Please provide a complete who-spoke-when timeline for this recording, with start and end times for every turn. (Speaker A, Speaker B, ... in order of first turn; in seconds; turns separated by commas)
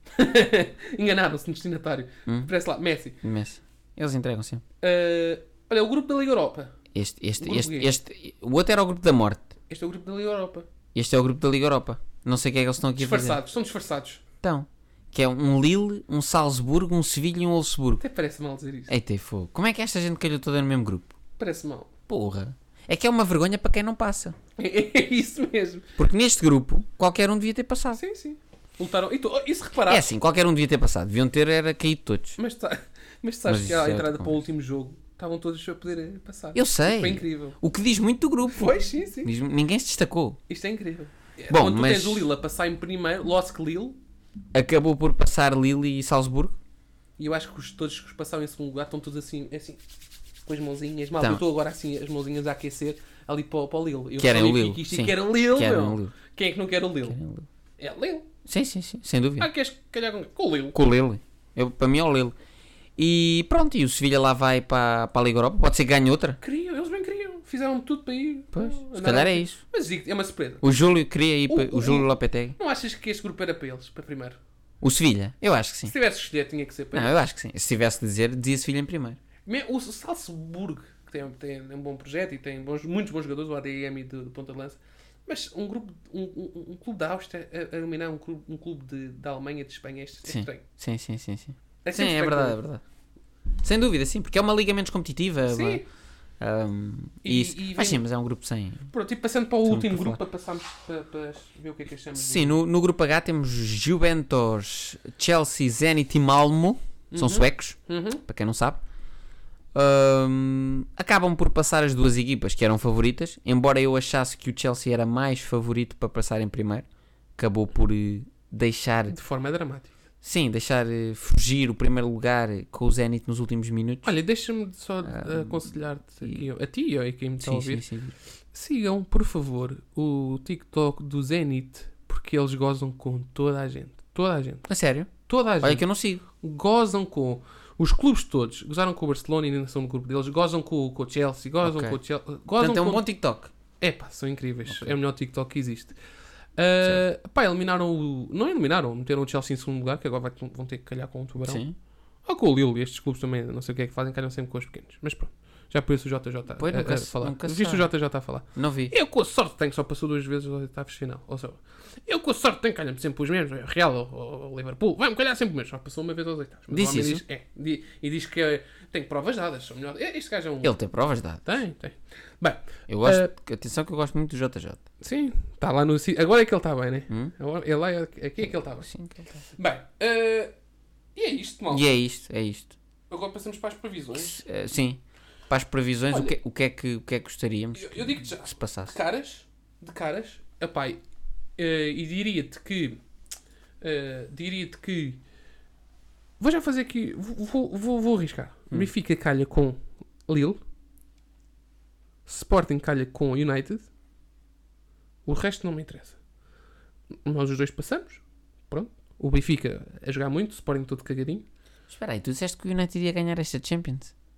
Speaker A: 0.1-3.2, Speaker B: 3.2-4.6, Speaker A: 4.8-6.7, Speaker B: 6.9-9.5, Speaker A: 7.4-7.9, Speaker A: 9.7-10.7, Speaker B: 10.9-13.4, Speaker A: 13.0-14.2, Speaker B: 14.4-18.0, Speaker A: 18.0-18.9, Speaker B: 18.9-21.1, Speaker A: 21.4-21.9, Speaker B: 22.1-24.4, Speaker A: 24.6-25.9, Speaker B: 26.0-28.0, Speaker A: 27.9-30.1, Speaker B: 29.9-32.4, Speaker A: 32.4-37.6, Speaker B: 33.5-34.4, Speaker B: 36.5-40.4, Speaker A: 38.5-39.3, Speaker A: 40.5-44.0, Speaker B: 41.5-42.3, Speaker B: 44.5-46.5, Speaker A: 47.2-49.8, Speaker A: 50.5-57.2, Speaker B: 54.2-56.1, Speaker B: 57.1-57.5, Speaker A: 57.8-58.3, Speaker B: 58.5-59.5, Speaker A: 59.4-60.8, Speaker B: 60.7-62.3, Speaker B: 63.0-66.4, Speaker A: 66.4-70.7, Speaker B: 68.5-69.6, Speaker B: 70.6-72.6, Speaker A: 71.5-74.4, Speaker B: 74.8-75.9, Speaker A: 75.8-77.1, Speaker B: 76.9-79.2, Speaker A: 79.5-90.6, Speaker B: 90.2-92.8, Speaker A: 91.8-92.6, Speaker B: 93.6-95.8, Speaker A: 95.5-95.8, Speaker B: 96.4-98.9, Speaker A: 97.2-98.0, Speaker A: 98.9-102.5, Speaker B: 99.6-100.2, Speaker B: 102.2-108.8, Speaker A: 107.1-108.2, Speaker B: 109.7-116.8, Speaker B: 117.4-119.2, Speaker A: 119.1-119.9, Speaker B: 120.2-124.1, Speaker A: 124.0-127.8, Speaker B: 125.0-126.4, Speaker B: 127.4-128.1, Speaker A: 128.5-134.7, Speaker B: 134.7-136.2, Speaker A: 135.2-143.0, Speaker B: 141.6-142.0, Speaker B: 142.6-143.5, Speaker A: 143.8-145.9, Speaker A: 146.6-151.6, Speaker B: 151.4-151.7, Speaker A: 152.2-170.8, Speaker B: 156.6-157.9, Speaker B: 158.5-158.9, Speaker B: 166.7-167.2, Speaker B: 170.6-171.4, Speaker A: 171.4-173.3, Speaker B: 172.9-174.8, Speaker A: 175.0-178.9, Speaker B: 178.4-179.4, Speaker A: 179.6-180.5, Speaker A: 181.2-181.8, Speaker B: 181.7-182.7, Speaker A: 183.1-184.4, Speaker B: 184.2-188.9, Speaker A: 186.1-186.3, Speaker A: 187.7-191.0, Speaker A: 191.6-193.0, Speaker A: 193.8-195.2, Speaker A: 196.4-200.6, Speaker A: 202.2-203.8, Speaker A: 205.2-206.2, Speaker A: 207.2-211.4, Speaker B: 211.9-214.1